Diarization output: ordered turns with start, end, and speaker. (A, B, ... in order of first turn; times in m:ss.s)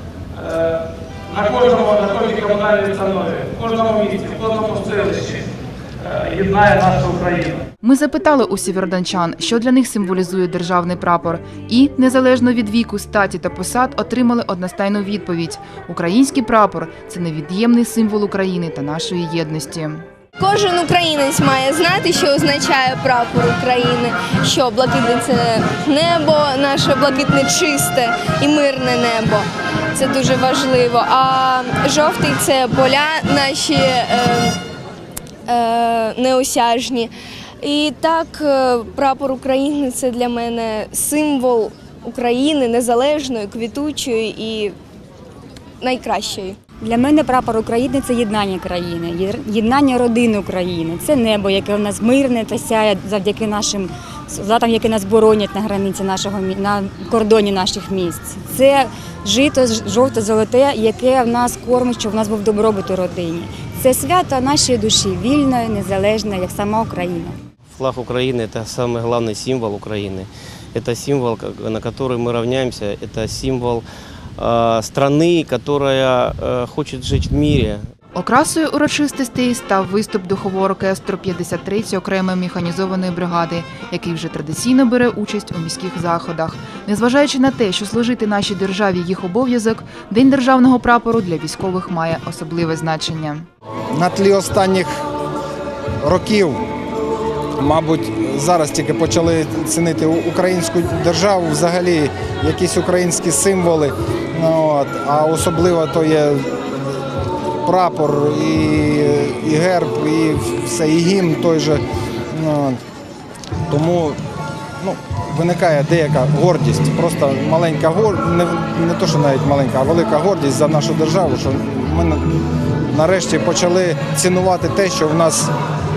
0:00.4-0:05.4 A
0:06.0-0:07.6 A
0:07.8-0:20.0 B
0:20.4-0:34.6 C
0:35.5-0:37.1 C
0:37.6-0:44.7 C
0:45.8-0:46.6 C
0:46.8-1:07.4 D
1:07.7-1:13.8 E
1:14.4-1:17.8 E
1:18.2-1:33.5 B
1:34.0-1:35.0 F
1:36.0-1:36.6 F
1:37.6-1:46.5 F
1:47.6-1:52.8 F
1:53.7-1:54.2 F
1:54.8-2:02.4 F
2:02.9-2:05.5 F